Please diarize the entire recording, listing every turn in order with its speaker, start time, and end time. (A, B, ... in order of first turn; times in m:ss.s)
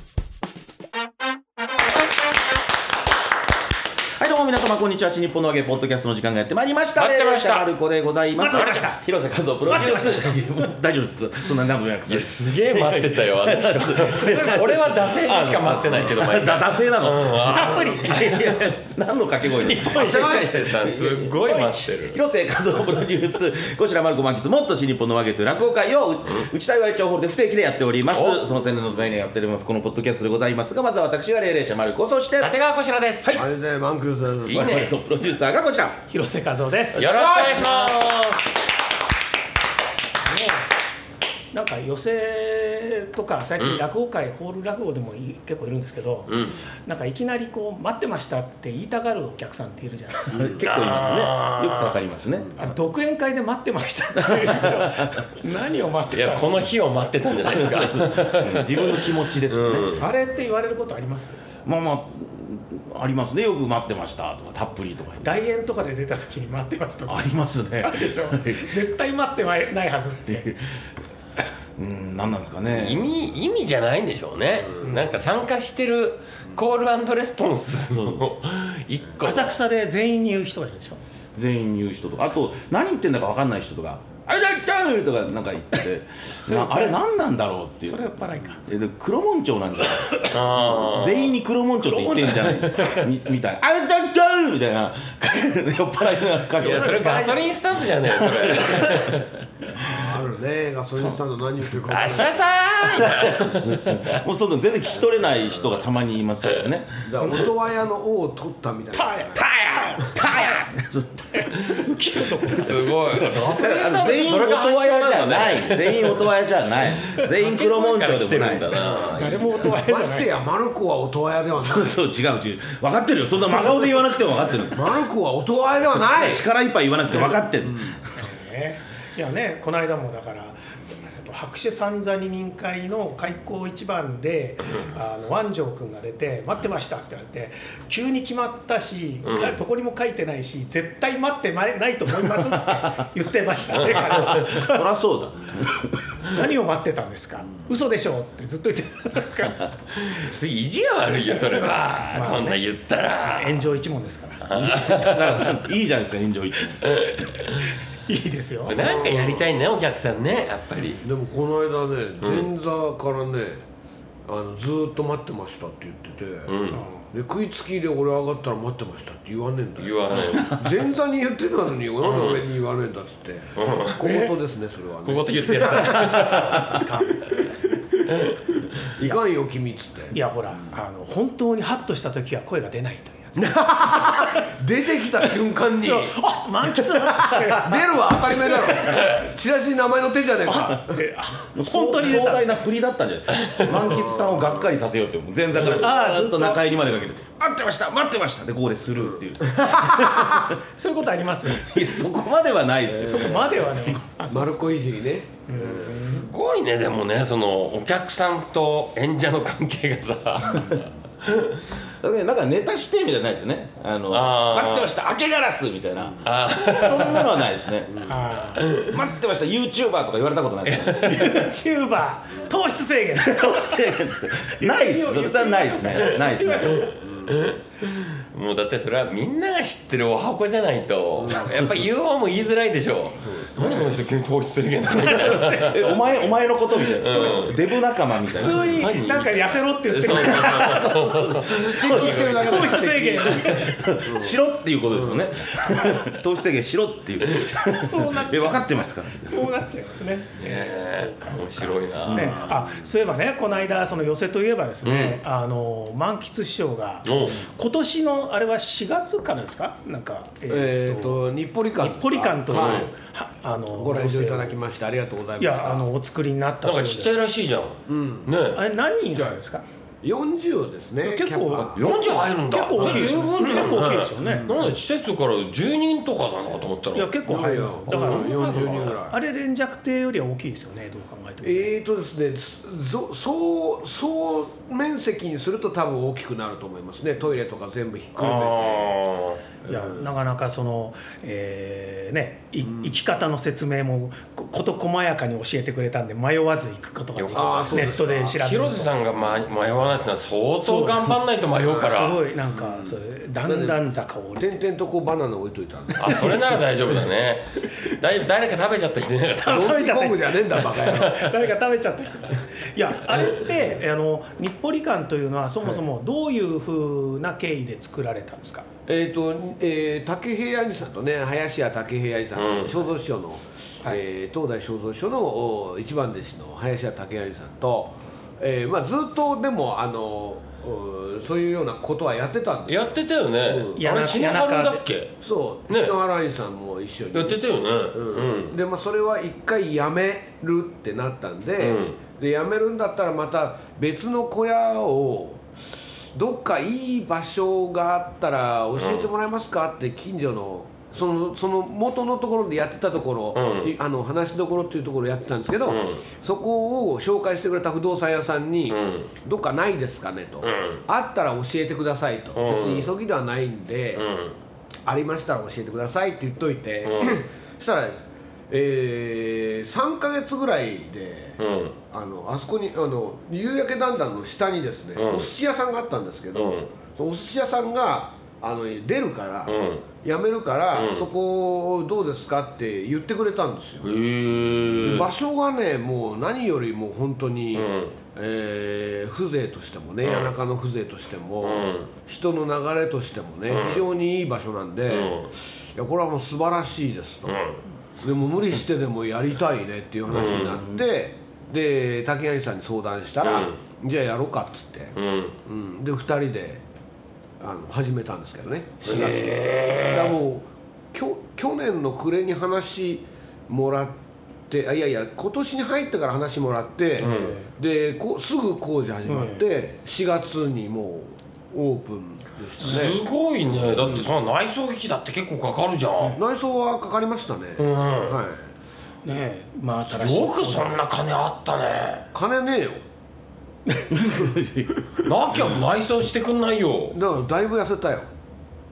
0:04.2-0:32.5 A
0:07.0-0:07.7 B
0:08.4-0:09.0 C
0:09.7-0:10.4 C
0:12.1-0:18.3 B
0:17.5-0:18.6 C
0:19.7-0:20.5 C
0:19.8-0:22.2 B
0:28.1-0:28.4 B
0:32.4-0:33.4 B
0:33.2-0:33.5 A
0:33.4-0:34.7 D
0:34.5-0:35.0 B
0:34.5-0:36.0 A
0:36.1-0:37.4 C
0:36.9-0:38.3 B
0:37.0-0:37.9 D
0:40.3-0:40.6 C
0:41.5-0:46.3 C
0:46.3-0:46.6 B
0:46.9-0:50.6 C
0:50.3-0:52.7 A
0:50.6-0:52.0 B
0:52.6-0:56.6 C
0:54.2-0:55.2 A
0:56.1-1:00.1 B
0:57.4-1:00.1 A
1:00.0-1:01.4 C
1:01.6-1:05.4 A
1:05.2-1:10.5 C
1:07.1-1:08.8 A
1:10.3-1:10.8 A
1:11.8-1:13.1 A
1:12.7-1:19.6 B
1:14.8-1:15.1 C
1:18.0-1:18.2 A
1:19.2-1:21.0 C
1:21.4-1:37.1 A
1:26.5-1:26.9 C
1:27.9-1:28.7 C
1:30.3-1:31.4 B
1:31.8-1:32.9 C
1:32.5-1:33.0 B
1:36.6-1:39.4 B
1:36.6-1:37.6 C
1:38.2-1:39.2 A
1:39.8-1:42.5 D
1:41.8-1:44.2 B
1:42.8-1:47.4 A
1:47.0-1:49.4 D
1:49.4-1:59.2 A
1:49.9-1:50.6 C
1:51.3-1:52.8 C
1:52.5-1:56.3 B
1:56.9-1:59.5 B
1:58.8-2:02.0 D
1:59.2-2:00.3 C
2:01.6-2:05.0 A
2:04.7-2:06.5 D
2:05.9-2:08.1 A
2:07.7-2:07.9 D
2:08.2-2:24.9 C
2:19.2-2:19.6 B
2:23.9-2:26.1 A
2:26.3-2:29.7 C
2:30.0-2:33.7 B
2:32.1-2:32.6 C
2:33.3-2:34.5 C
2:34.4-2:35.6 B
2:34.5-2:37.0 A
2:36.8-2:37.7 B
2:38.1-2:38.8 C
2:38.7-2:41.0 B
2:38.8-2:39.5 D
2:41.0-2:43.6 D
2:42.2-2:42.5 B
2:44.3-2:46.6 D
2:46.5-2:46.8 B
2:46.7-2:47.1 C
2:47.1-2:58.3 D
2:49.8-2:50.6 B
2:52.0-2:52.5 B
2:53.6-2:54.3 B
2:55.0-2:56.8 B
2:56.5-2:57.5 C
2:58.1-2:58.3 B
2:58.8-3:00.2 D
3:00.1-3:04.5 C
3:03.4-3:06.2 D
3:05.8-3:09.1 C
3:06.9-3:11.0 D
3:10.4-3:12.6 C
3:11.5-3:20.6 A
3:13.8-3:14.7 D
3:15.6-3:16.8 C
3:19.5-3:20.0 D
3:20.8-3:22.1 C
3:21.5-3:24.0 A
3:22.9-3:23.5 D
3:23.0-3:24.6 C
3:24.3-3:26.0 D
3:25.5-3:26.3 C
3:26.1-3:31.6 B
3:32.0-3:38.1 A
3:34.1-3:34.9 B
3:36.2-3:37.3 B
3:38.0-3:38.7 C
3:38.6-3:38.9 B
3:38.8-3:41.5 A
3:40.7-3:41.2 B
3:41.0-3:44.0 C
3:43.2-3:46.9 A
3:44.5-3:46.9 C
3:46.5-3:55.9 B
3:47.0-3:47.4 D
3:51.2-3:51.8 D
3:53.2-3:53.9 D
3:55.0-3:55.9 C
3:55.6-3:58.8 A
3:56.9-3:57.6 B
3:58.4-4:03.8 C
3:58.5-4:02.5 B
4:00.1-4:00.8 A
4:01.5-4:04.4 D
4:01.8-4:02.8 A
4:03.5-4:09.6 A
4:04.9-4:05.3 D
4:05.6-4:06.0 C
4:07.6-4:21.2 C
4:10.4-4:12.4 B
4:12.0-4:12.5 A
4:12.5-4:12.7 D
4:14.8-4:15.2 B
4:17.0-4:17.4 B
4:20.5-4:22.9 D
4:21.8-4:24.6 C
4:22.5-4:22.9 B
4:23.7-4:25.9 D
4:25.4-4:27.1 C
4:26.6-4:28.6 B
4:27.9-4:28.3 D
4:28.5-4:29.6 C
4:29.1-4:29.4 D
4:30.0-4:31.9 D
4:31.0-4:34.5 C
4:31.6-4:37.1 B
4:32.8-4:34.8 D
4:36.9-4:41.7 C
4:37.2-4:39.2 D
4:37.9-4:39.0 B
4:41.4-4:48.9 D
4:48.2-4:49.4 B
4:49.6-4:50.1 D
4:49.7-4:58.9 C
4:52.6-4:53.0 D
4:57.2-5:02.2 B
4:57.3-4:58.3 D
5:00.6-5:01.1 C
5:01.7-5:01.9 D
5:01.8-5:04.7 C
5:02.5-5:03.8 D
5:04.4-5:06.5 D
5:06.0-5:09.7 B
5:09.4-5:18.7 C
5:09.5-5:11.3 D
5:10.7-5:11.3 B
5:18.9-5:33.8 D
5:22.3-5:22.9 B
5:32.7-5:35.2 B
5:33.8-5:34.8 C
5:35.2-5:37.4 D
5:35.7-5:36.0 B
5:37.1-5:38.6 B
5:37.9-5:45.4 D
5:41.6-5:42.0 B
5:46.1-6:04.0 D
5:48.8-5:49.1 B
5:53.4-5:53.7 B
5:55.7-5:56.0 B
5:58.7-5:59.1 B
6:00.4-6:00.8 B
6:02.3-6:02.9 B
6:04.0-6:04.4 B
6:04.9-6:11.4 D
6:06.8-6:07.2 B
6:11.4-6:11.8 B
6:11.9-6:24.0 D
6:15.0-6:15.3 B
6:16.3-6:16.7 B
6:19.5-6:19.8 B
6:20.7-6:21.1 B
6:23.8-6:25.1 B
6:24.8-6:37.4 D
6:27.5-6:27.9 B
6:30.0-6:30.4 B
6:31.4-6:31.9 B
6:33.5-6:33.8 B
6:34.9-6:35.3 B
6:37.3-6:37.6 B
6:38.0-6:44.9 D
6:40.1-6:40.6 B
6:43.2-6:43.6 B
6:45.0-6:45.4 B
6:45.4-6:46.6 D
6:47.4-6:54.0 D
6:48.8-6:50.2 B
6:54.5-7:03.0 D
6:57.0-6:57.4 B
6:57.0-6:57.5 C
6:59.0-6:59.4 C
7:02.6-7:06.2 B
7:02.6-7:02.9 C
7:03.7-7:04.1 D
7:06.2-7:08.5 D
7:07.6-7:08.2 B
7:09.0-7:10.8 C
7:09.9-7:12.1 B
7:12.1-7:12.8 D
7:13.9-7:14.9 A
7:15.0-7:17.0 B
7:16.9-7:18.1 D